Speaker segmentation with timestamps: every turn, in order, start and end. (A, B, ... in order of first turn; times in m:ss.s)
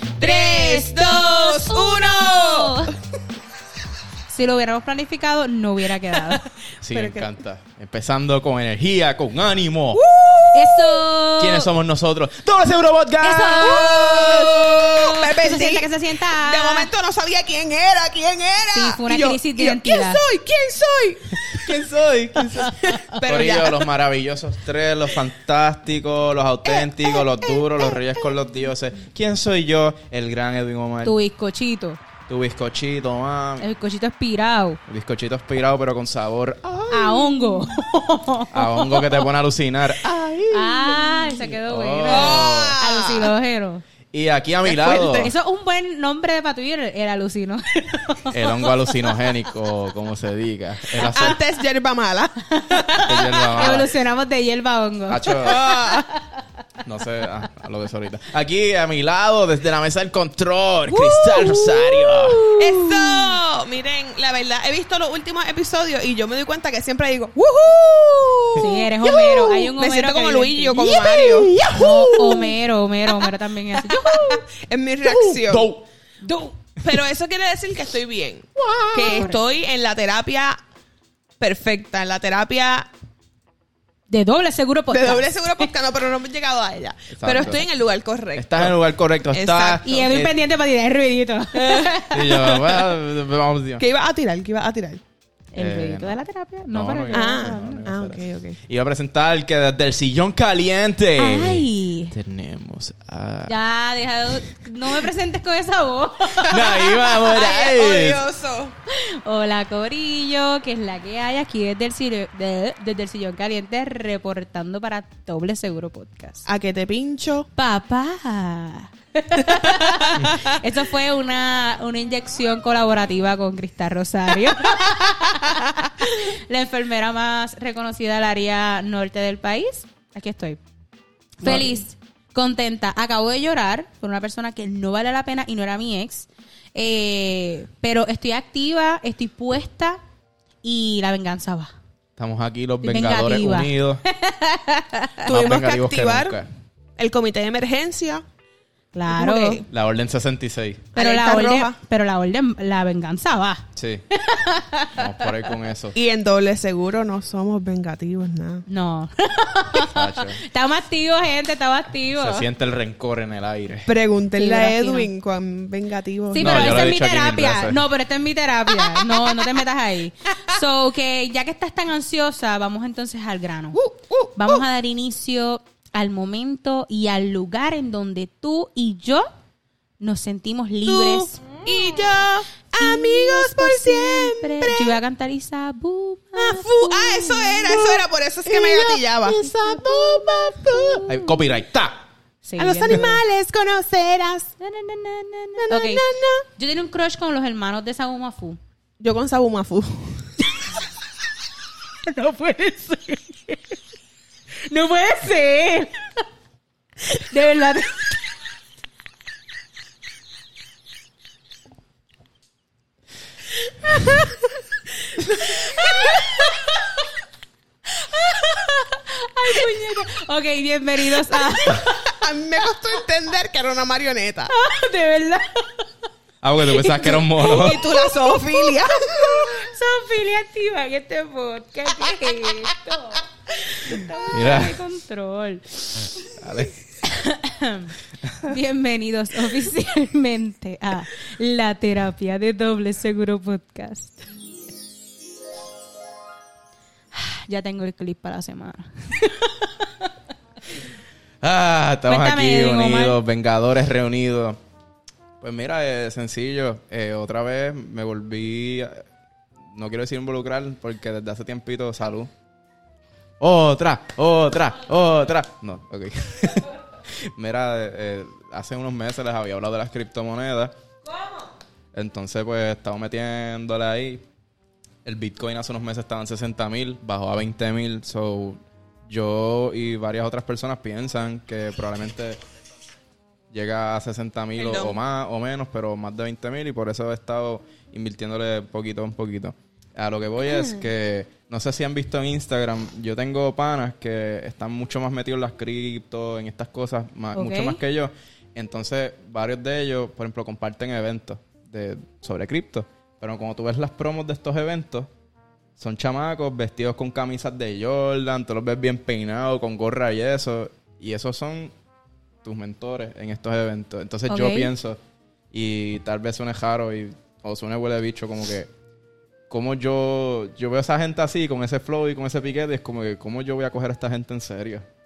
0:00.2-0:02.8 A
0:00.2-0:02.9 B
0:04.3-0:06.5 B
0:06.8-0:10.0 C
0:06.9-0:07.3 A
0:09.9-0:11.0 A
0:10.5-0:11.7 B
0:11.4-0:14.8 C
0:13.2-0:16.9 B
0:13.5-0:21.8 A
0:18.7-0:20.2 B
0:21.4-0:31.2 C
0:22.5-0:23.8 A
0:22.7-0:23.2 B
0:26.7-0:28.1 A
0:31.0-0:32.0 B
0:32.3-0:33.7 C
0:33.6-0:34.8 B
0:34.9-0:37.3 C
0:36.9-0:39.2 B
0:38.5-0:42.8 C
0:40.5-0:43.8 B
0:42.1-0:43.3 A
0:44.1-0:45.3 C
0:44.7-0:48.9 B
0:48.3-0:51.4 C
0:51.0-0:53.9 A
0:52.5-0:56.4 B
0:53.0-0:53.9 C
0:55.1-0:55.6 C
0:55.4-0:56.1 A
0:56.8-1:02.5 C
1:00.9-1:12.5 A
1:02.5-1:03.4 B
1:08.6-1:14.4 B
1:11.1-1:12.3 C
1:13.7-1:15.7 A
1:15.0-1:15.8 C
1:16.2-1:16.6 B
1:16.8-1:20.6 A
1:18.9-1:19.4 B
1:21.4-1:22.9 A
1:24.1-1:25.7 B
1:24.9-1:28.8 A
1:27.1-1:27.6 C
1:28.4-1:30.3 C
1:29.3-1:30.0 A
1:29.8-1:32.5 B
1:31.5-1:32.6 A
1:32.1-1:33.8 C
1:33.8-1:35.0 A
1:35.5-1:37.8 B
1:35.6-1:36.2 C
1:36.7-1:43.6 C
1:37.1-1:38.6 A
1:41.2-1:42.2 B
1:43.5-1:47.2 B
1:46.4-1:48.2 C
1:47.1-1:48.8 A
1:48.9-1:56.5 B
1:56.5-1:57.5 A
1:57.6-2:10.6 B
1:59.6-2:00.4 A
2:11.4-2:20.0 B
2:11.4-2:11.7 C
2:20.6-2:21.7 B
2:22.2-2:24.0 C
2:22.8-2:25.3 B
2:25.3-2:26.4 A
2:25.3-2:26.5 C
2:27.0-2:28.2 A
2:28.9-2:29.6 B
2:29.1-2:29.7 A
2:29.7-2:30.9 C
2:31.0-2:31.8 A
2:31.0-2:35.1 B
2:33.8-2:34.0 C
2:34.9-2:36.0 C
2:35.9-2:38.6 A
2:38.7-2:42.5 B
2:39.7-2:40.4 C
2:42.2-2:43.9 C
2:43.9-2:46.8 A
2:44.4-2:45.1 B
2:46.3-2:53.8 B
2:46.4-2:47.8 C
2:48.8-2:49.4 A
2:53.7-2:54.6 A
2:54.4-2:59.3 B
3:00.0-3:01.4 B
3:00.9-3:05.0 A
3:02.8-3:11.3 B
3:06.4-3:11.0 A
3:11.1-3:12.0 C
3:12.4-3:13.2 B
3:12.6-3:14.5 A
3:14.6-3:18.6 B
3:15.6-3:16.5 A
3:19.0-3:20.3 A
3:22.0-3:23.6 B
3:24.7-3:26.1 B
3:27.1-3:28.2 B
3:33.8-3:34.4 B
3:35.2-3:36.4 A
3:35.4-3:36.8 B
3:37.9-3:42.2 B
3:41.7-3:44.5 A
3:44.5-3:45.9 B
3:46.4-3:47.8 C
3:46.7-3:55.9 B
3:47.4-3:49.7 A
3:52.1-3:52.6 A
3:54.3-3:54.8 C
3:56.2-3:56.7 C
3:57.0-4:04.2 B
4:07.1-4:10.1 B
4:11.4-4:14.6 C
4:12.1-4:13.2 B
4:15.4-4:19.0 C
4:19.7-4:22.3 C
4:23.4-4:30.7 C
4:31.9-4:34.2 C
4:35.0-4:42.4 C
4:43.5-5:05.1 C
4:44.6-4:45.0 A
4:57.3-4:57.8 B
5:05.8-5:11.7 C
5:12.4-5:15.0 C
5:14.3-5:14.7 B
5:15.5-5:18.7 C
5:19.5-5:24.9 C